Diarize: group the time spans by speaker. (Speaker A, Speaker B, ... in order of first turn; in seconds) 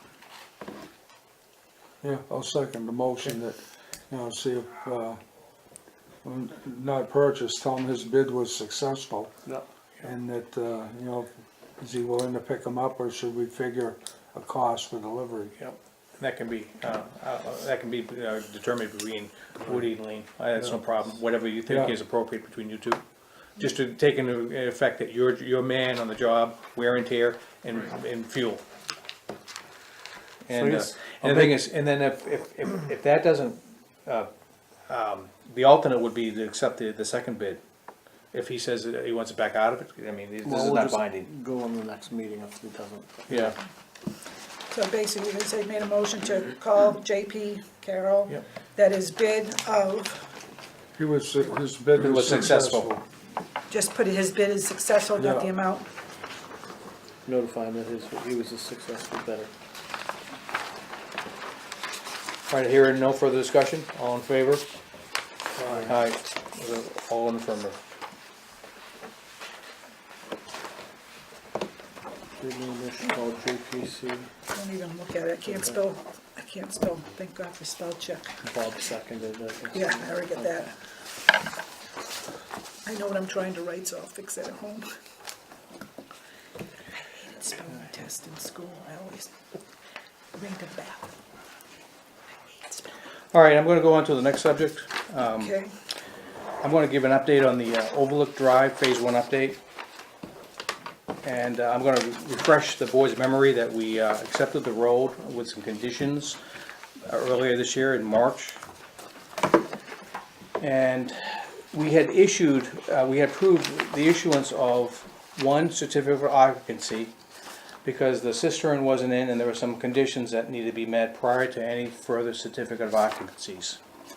Speaker A: 2.0-3.6, 4.1-5.2, 6.2-9.3, 10.0-15.5, 21.7-21.9, 51.0-53.0, 55.2-55.5
Speaker B: 15.6-23.0, 23.6-28.6, 30.4-34.3, 34.9-37.6, 38.3-41.3, 43.3-43.5, 52.0-52.9, 62.5-64.6, 65.8-67.8, 93.3-95.6, 96.6-99.6, 101.2-106.4, 107.1-108.6, 110.6-117.1, 117.8-123.8
Speaker C: 30.5-31.6, 40.4-43.5, 57.2-59.5, 65.6-65.9, 72.4-74.3, 78.4-80.7
Speaker D: 44.7-50.1, 53.7-55.9, 74.5-78.3, 79.7-80.7, 82.8-84.8, 87.4-89.5, 90.3-91.1, 95.2-95.7